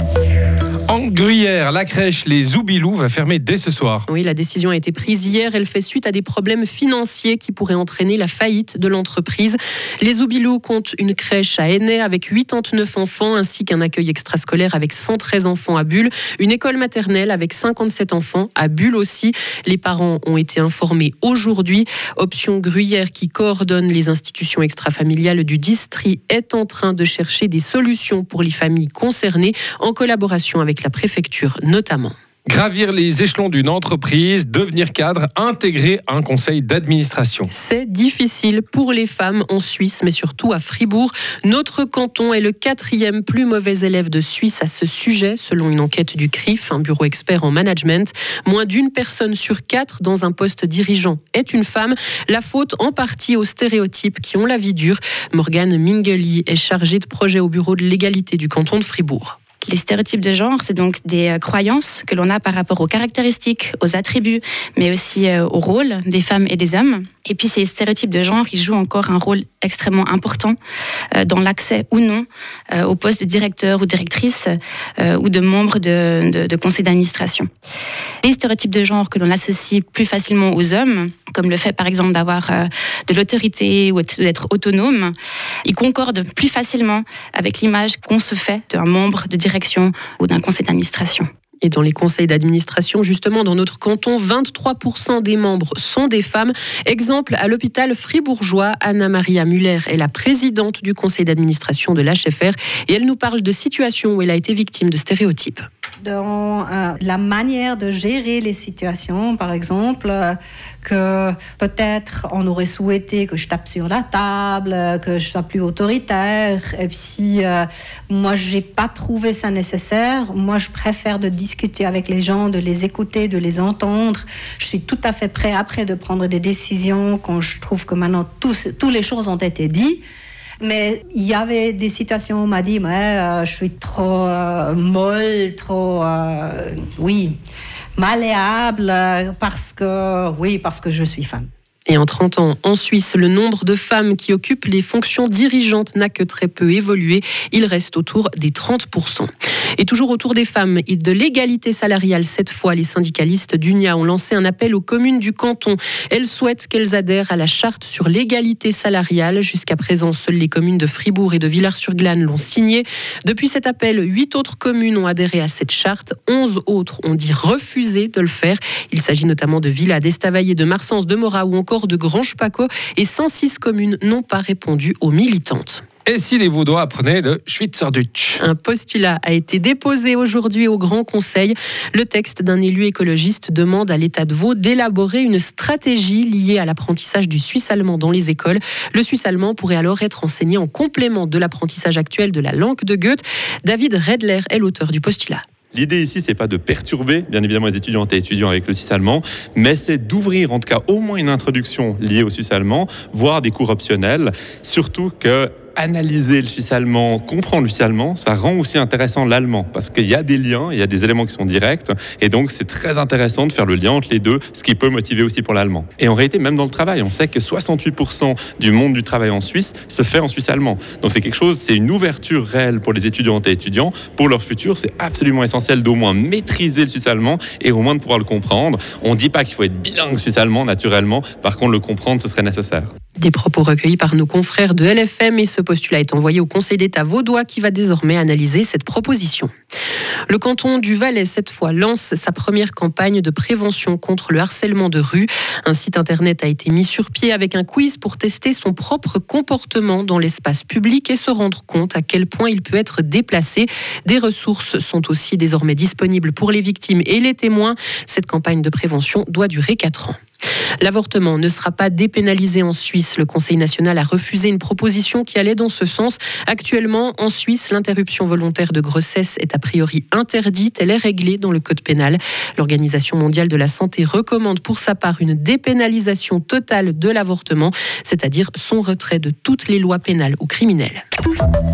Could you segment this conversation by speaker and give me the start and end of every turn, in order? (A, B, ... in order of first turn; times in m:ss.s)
0:00.9-0:04.1 A
0:04.1-0:32.1 B
0:32.5-0:37.5 A
0:37.5-0:59.4 B
0:59.7-1:10.6 C
1:11.2-1:12.2 C
1:12.8-1:14.5 C
1:15.0-1:17.5 C
1:18.2-1:25.1 C
1:25.7-1:31.2 C
1:31.6-1:45.6 B
1:46.0-2:10.0 D
2:10.6-2:17.4 D
2:18.0-2:21.5 D
2:21.9-2:55.8 B
2:56.1-2:58.4 A
2:58.4-3:15.4 B
3:15.7-3:52.9 E
3:53.2-3:59.5 B
4:00.3-4:20.2 B
4:20.8-4:41.0 B